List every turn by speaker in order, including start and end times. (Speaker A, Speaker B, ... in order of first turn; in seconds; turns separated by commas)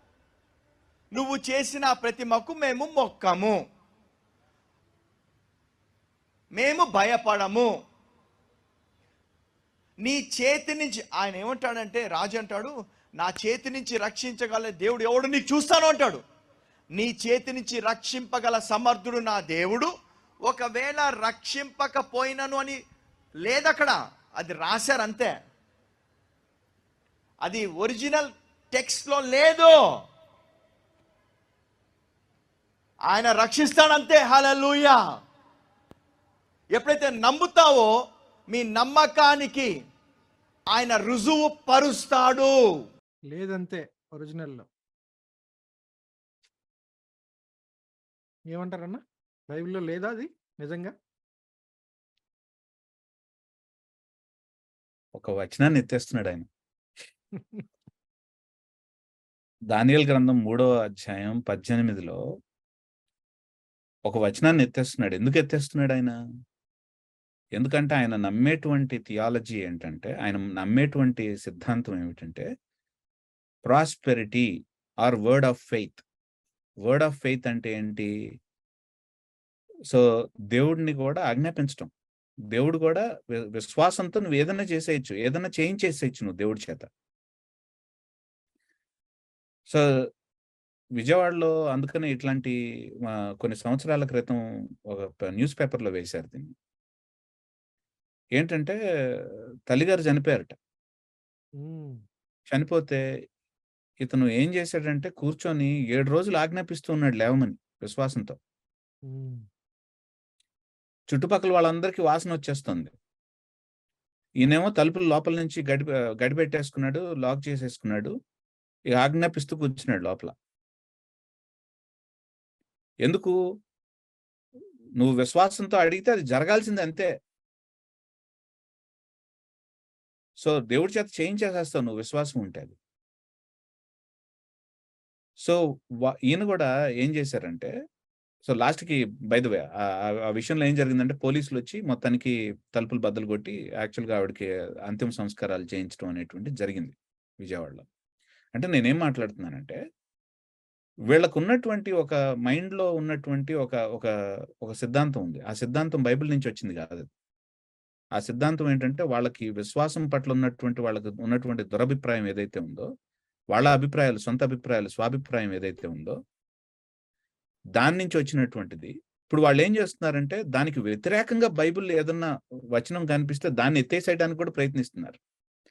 Speaker A: 1.1-3.6, Speaker A: 6.5-7.7, Speaker A: 10.0-16.2, Speaker A: 16.9-19.9, Speaker A: 20.5-22.8, Speaker A: 23.4-25.3, Speaker A: 27.4-29.8, Speaker A: 33.1-35.0, Speaker A: 36.7-37.9, Speaker A: 38.5-39.7, Speaker A: 40.7-42.5, Speaker B: 43.3-44.6, Speaker B: 48.5-50.9, Speaker C: 55.1-56.5, Speaker B: 57.3-57.6, Speaker C: 59.7-62.2, Speaker C: 64.0-66.1, Speaker C: 67.5-72.5, Speaker C: 73.7-74.5, Speaker C: 75.0-76.0, Speaker C: 76.8-78.1, Speaker C: 79.9-81.9, Speaker C: 82.5-86.8, Speaker C: 89.7-90.1, Speaker C: 91.0-96.5, Speaker C: 98.3-100.5, Speaker B: 101.6-102.0, Speaker C: 102.5-103.0, Speaker C: 104.0-108.3, Speaker B: 109.1-109.4, Speaker C: 111.1-112.9, Speaker C: 114.4-118.1, Speaker C: 118.9-120.3, Speaker C: 123.0-123.3, Speaker C: 125.0-127.1, Speaker C: 130.4-132.8, Speaker C: 135.4-137.7, Speaker C: 138.4-139.7, Speaker C: 140.3-147.8, Speaker C: 148.6-149.8, Speaker C: 151.1-154.1, Speaker C: 154.6-157.1, Speaker C: 158.2-162.9, Speaker C: 163.5-166.2, Speaker C: 167.8-175.2